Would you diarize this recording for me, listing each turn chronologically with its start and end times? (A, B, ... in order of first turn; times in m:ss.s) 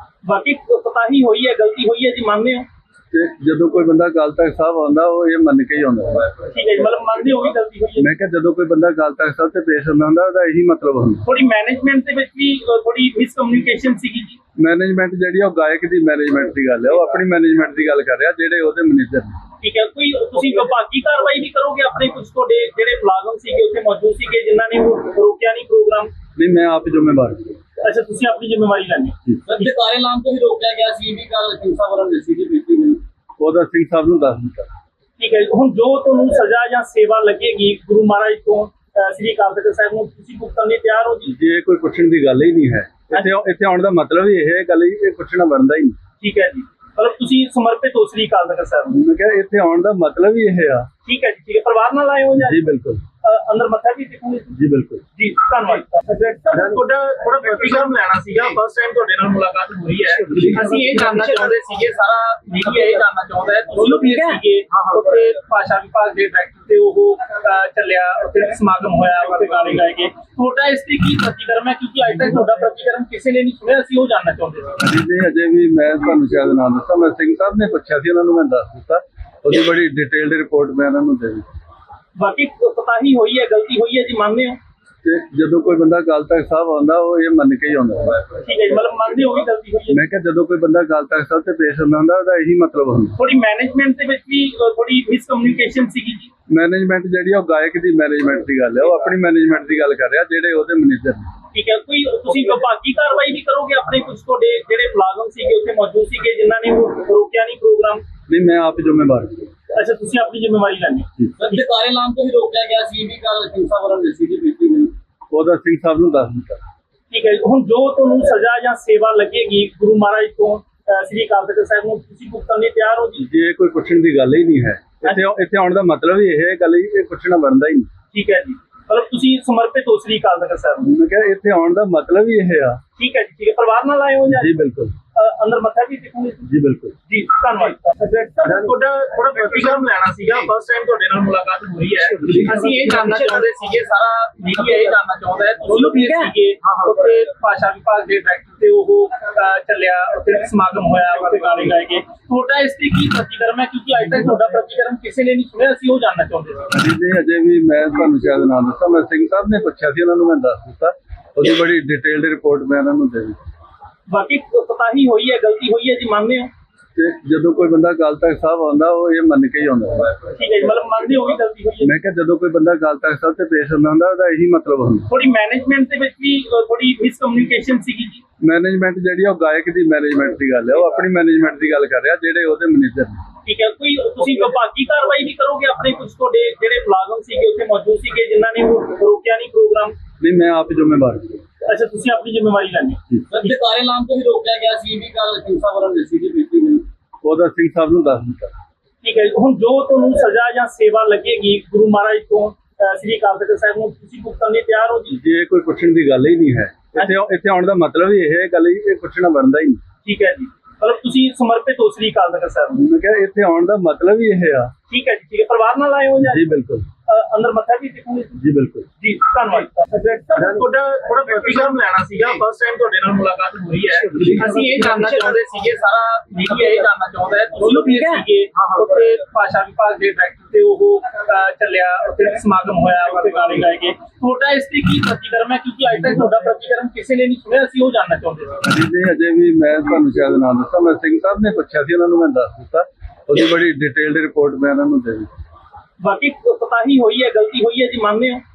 0:00.2-0:02.6 A
0:03.1-0:06.4 B
0:06.4-0:08.1 A
0:08.0-0:11.2 B
0:11.2-0:14.4 A
0:14.6-0:19.4 B
0:19.6-0:26.1 A
0:26.4-0:27.5 B
0:27.8-0:29.7 A
0:29.4-0:33.0 C
0:33.4-0:34.7 B
0:35.2-0:41.3 A
0:41.3-0:46.0 B
0:46.2-0:48.9 A
0:48.9-0:50.9 B
0:51.0-0:52.6 A
0:52.4-0:53.0 B
0:53.2-0:54.6 A
0:54.6-0:55.1 B
0:55.2-1:14.7 A
1:14.8-1:21.5 B
1:22.2-1:24.6 A
1:25.0-1:28.3 B
1:28.3-1:30.0 A
1:29.9-1:33.1 B
1:33.2-1:36.3 A
1:36.5-1:41.3 B
1:41.5-1:48.0 A
1:48.3-1:49.5 B
1:49.7-1:51.1 A
1:51.4-1:54.9 C
1:55.3-1:56.6 B
1:57.1-2:03.3 A
2:03.2-2:07.9 B
2:08.1-2:10.8 A
2:10.8-2:12.8 B
2:13.0-2:14.5 A
2:14.4-2:14.9 B
2:15.1-2:16.5 A
2:16.5-2:17.1 B
2:17.1-2:36.7 A
2:36.7-2:43.4 B
2:44.1-2:46.5 A
2:47.0-2:50.2 B
2:50.3-2:51.9 A
2:51.8-2:55.1 B
2:55.1-2:58.2 A
2:58.4-3:03.2 B
3:03.4-3:10.0 A
3:10.2-3:11.4 B
3:11.6-3:13.0 A
3:13.3-3:16.8 C
3:17.2-3:18.5 B
3:19.0-3:25.2 A
3:25.1-3:29.8 B
3:30.0-3:32.8 A
3:32.7-3:34.7 B
3:34.9-3:36.4 A
3:36.3-3:36.9 B
3:37.0-3:38.4 A
3:38.4-3:39.0 B
3:39.0-3:58.6 A
3:58.6-4:05.3 B
4:06.0-4:08.4 A